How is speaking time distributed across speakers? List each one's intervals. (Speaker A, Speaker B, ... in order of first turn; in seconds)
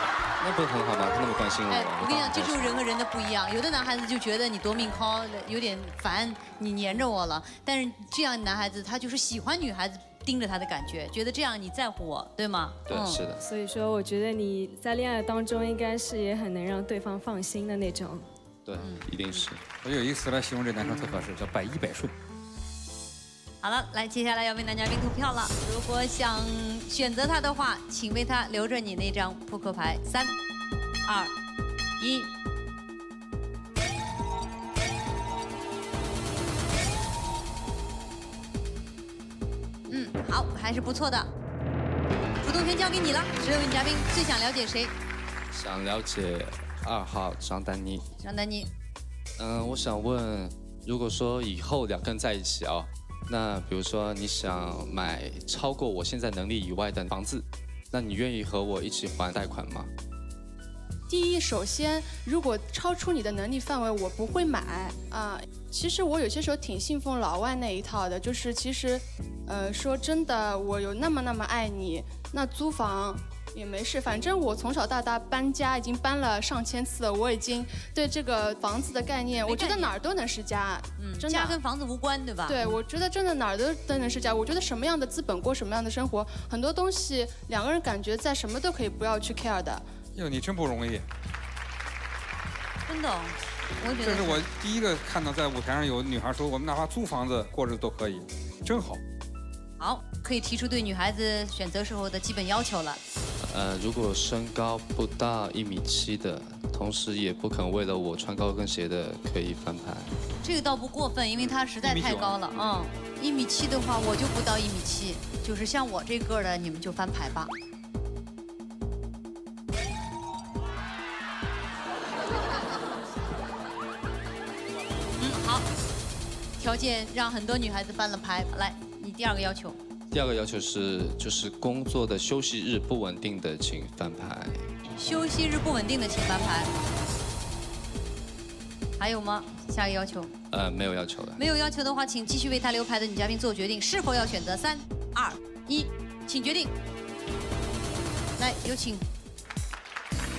Speaker A: 0.4-2.8, 12.9-13.4, 18.7-19.6, 45.5-48.1, 49.4-59.9, 103.4-110.2, 130.1-134.7, 140.5-141.4
Speaker B: 1.7-13.2, 18.8-19.5, 20.9-21.2, 23.6-30.3, 31.1-31.3, 32.0-32.3, 39.9-41.3, 42.4-44.9, 48.2-48.7, 79.4-79.9, 81.0-82.6, 92.9-94.4, 99.8-103.0, 110.4-117.5, 125.2-125.7, 126.6-129.8, 134.9-136.7, 139.0-140.3, 141.4-146.7, 148.4-149.1
Speaker C: 13.4-18.3
Speaker D: 19.8-22.1, 90.2-91.1, 94.0-99.0, 111.4-112.4
Speaker E: 61.1-81.6, 82.5-89.8